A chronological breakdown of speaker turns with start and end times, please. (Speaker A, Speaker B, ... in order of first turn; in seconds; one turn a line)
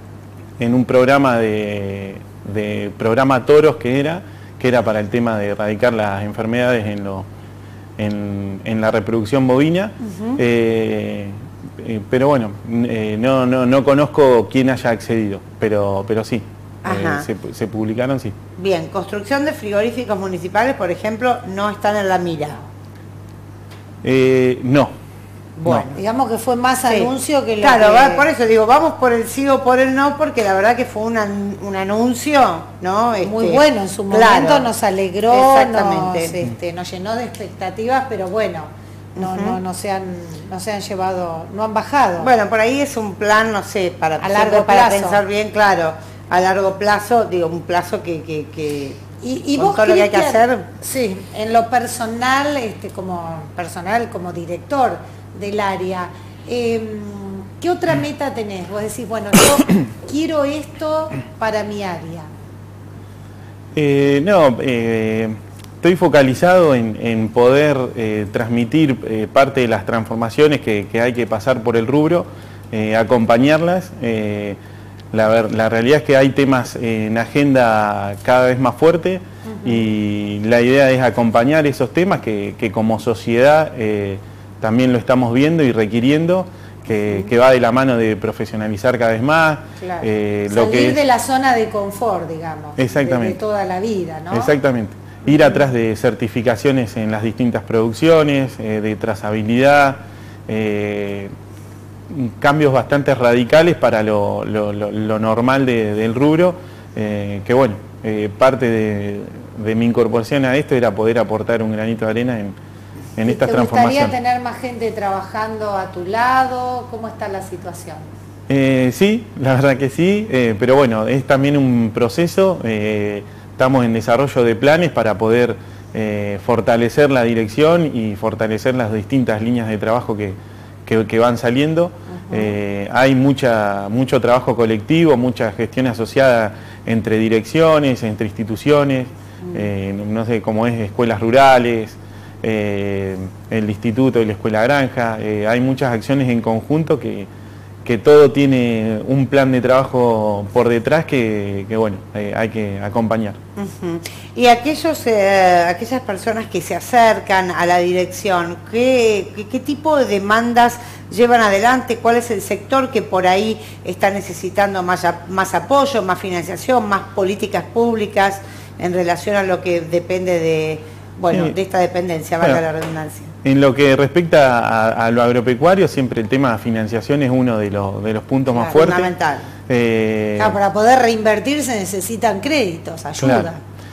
Speaker A: 0.6-7.3
Speaker A: 8.0-18.4
Speaker B: 10.1-10.4
Speaker B: 16.8-17.3
Speaker B: 18.6-22.7
Speaker A: 24.0-24.9
Speaker B: 25.6-26.0
Speaker C: 26.0-28.3
Speaker B: 26.9-34.7
Speaker C: 33.2-42.3
Speaker B: 35.3-36.4
Speaker B: 39.2-39.6
Speaker B: 42.2-49.0
Speaker C: 44.2-45.2
Speaker C: 49.2-62.3
Speaker B: 49.5-50.7
Speaker A: 63.8-74.6
Speaker A: 75.1-91.0
Speaker C: 79.5-79.9
Speaker C: 89.8-94.5
Speaker A: 92.8-93.4
Speaker A: 94.3-101.3
Speaker C: 95.3-95.5
Speaker A: 102.1-112.6
Speaker A: 113.2-114.1
Speaker C: 113.2-118.1
Speaker A: 118.5-147.3
Speaker A: 147.8-153.4
Speaker B: 153.6-173.3
Speaker A: 173.4-179.1
Speaker B: 178.5-179.5
Speaker A: 179.7-180.6
Speaker C: 180.4-183.6
Speaker A: 183.2-183.5